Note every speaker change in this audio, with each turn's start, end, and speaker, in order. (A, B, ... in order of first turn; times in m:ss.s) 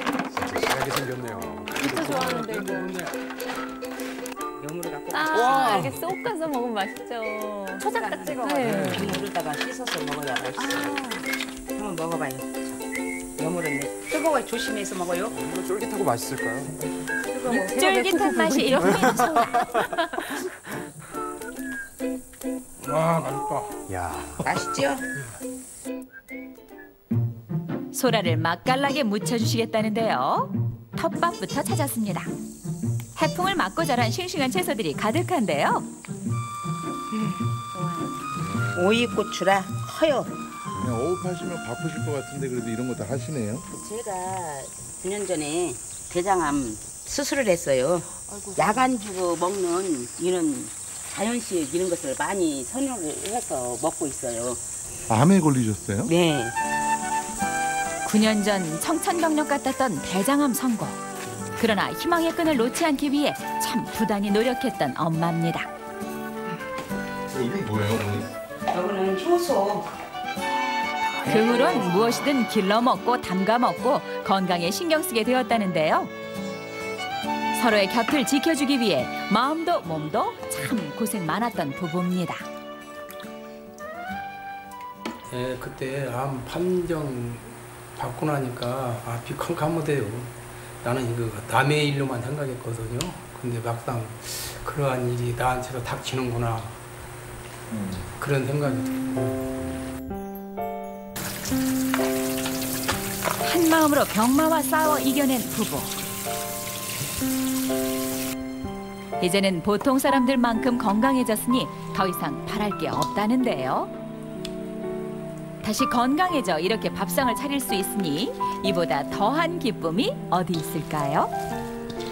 0:00.3-0:02.1 A
0:01.3-0:03.0 B
0:01.9-0:03.2 C
0:04.6-0:06.0 D
0:05.1-0:09.2 B
0:05.3-0:05.9 A
0:07.8-0:11.1 D
0:08.6-0:09.2 A
0:10.6-0:11.3 B
0:11.8-0:12.7 D
0:13.4-0:15.4 D
0:15.3-0:16.7 A
0:17.4-0:20.0 B
0:17.5-0:19.7 E
0:22.8-0:23.7 C
0:23.9-0:24.5 A
0:24.4-0:25.0 D
0:27.9-0:32.3 E
0:33.2-0:35.9 E
0:37.3-0:38.0 D
0:38.7-0:40.3 D
0:40.8-0:43.6 F
0:43.7-0:54.6 D
0:55.1-0:56.1 F
0:56.0-0:56.6 D
0:58.0-1:01.0 E
1:01.6-1:05.7 E
1:07.3-1:08.3 F
1:08.7-1:09.9 D
1:11.2-1:16.1 E
1:11.3-1:11.9 D
1:17.6-1:22.4 E
1:25.3-1:36.8 C
1:38.1-1:39.5 C
1:43.4-1:46.0 E
1:49.2-1:53.9 E
1:55.6-2:01.3 E